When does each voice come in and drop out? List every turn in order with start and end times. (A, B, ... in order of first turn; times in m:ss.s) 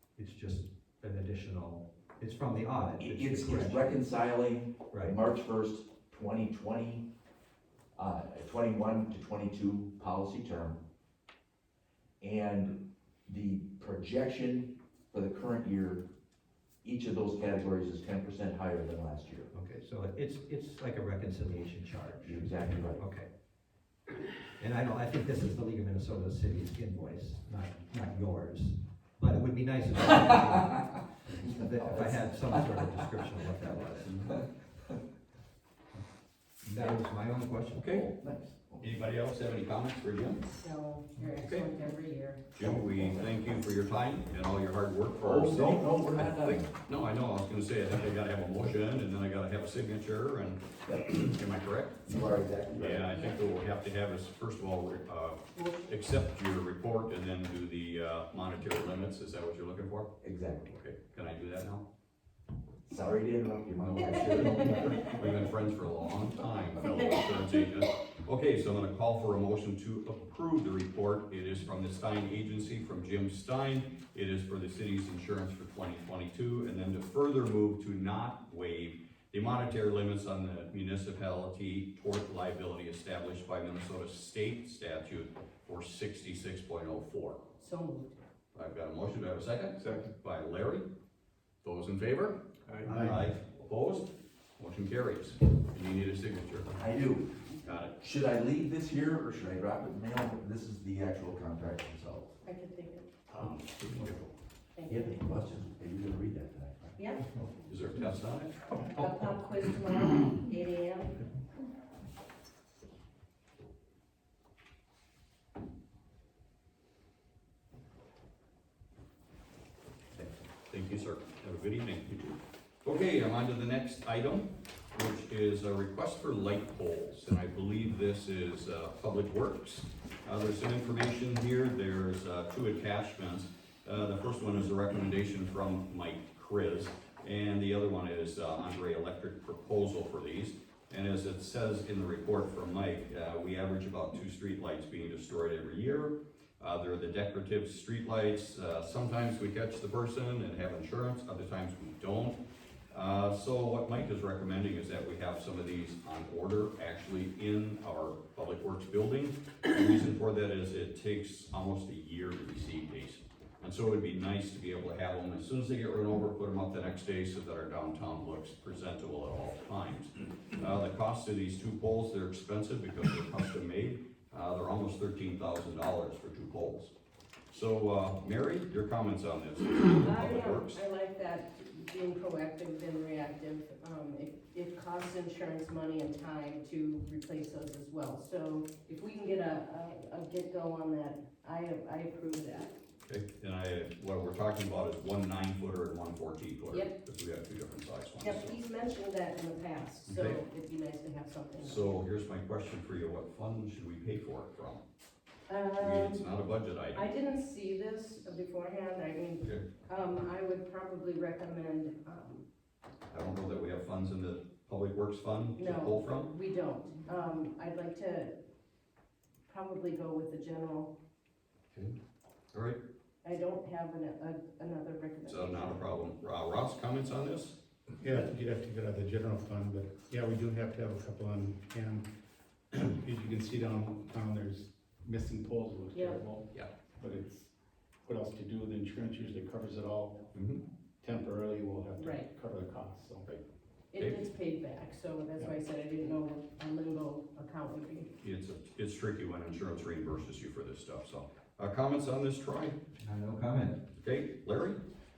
0:00.2-0:04.0 A
0:03.0-0:07.1 B
0:08.0-0:10.8 B
0:12.2-0:12.7 B
0:13.3-0:16.0 B
0:16.8-0:19.5 B
0:19.5-0:23.3 A
0:22.2-0:23.0 B
0:24.6-0:34.2 A
0:31.5-0:32.1 B
0:34.0-0:34.3 C
0:36.6-0:38.0 A
0:37.8-0:38.1 C
0:37.9-0:38.9 B
0:38.8-0:40.5 C
0:40.5-0:42.4 D
0:41.3-0:41.7 C
0:42.6-0:52.1 C
0:42.6-0:43.3 B
0:45.2-0:46.7 B
0:52.1-0:53.1 B
0:52.7-1:00.2 C
0:53.1-0:53.5 D
0:55.5-0:56.0 D
1:00.2-1:00.8 B
1:00.7-1:01.8 C
1:02.9-1:05.3 B
1:04.1-1:05.0 D
1:04.6-1:27.5 C
1:06.8-1:07.5 D
1:27.6-1:28.2 D
1:28.6-1:30.9 C
1:31.6-1:32.4 C
1:32.8-1:33.2 E
1:32.9-1:36.7 C
1:36.8-1:37.3 B
1:37.6-1:38.0 C
1:38.0-1:42.4 B
1:42.4-1:43.2 D
1:43.3-1:44.3 C
1:44.8-1:45.1 D
1:44.9-1:47.0 B
1:47.0-1:47.3 D
1:47.7-1:49.1 C
1:49.0-1:51.2 D
2:00.2-2:32.4 C
2:32.9-2:56.9 C
2:57.5-3:00.8 C
3:00.0-3:12.7 D
3:13.1-3:18.6 C
3:18.2-3:22.0 D
3:20.1-3:20.4 C
3:21.6-3:24.8 C
3:25.5-3:26.4 D
3:25.8-3:27.1 C
3:26.9-3:32.4 D
3:33.1-3:36.3 C
3:35.6-3:38.3 D
3:39.5-3:40.9 D
3:42.5-3:42.8 C
3:43.2-3:45.8 D
3:45.3-3:47.6 C
3:48.0-3:52.1 E
3:52.7-3:57.5 E
3:55.9-3:56.2 D
3:58.0-4:00.3 E
4:00.3-4:00.6 C
4:01.0-4:03.3 E
4:02.0-4:02.3 D
4:03.9-4:08.1 D
4:04.0-4:04.2 C
4:08.2-4:12.8 C
4:13.0-4:13.8 A
4:14.0-4:14.8 C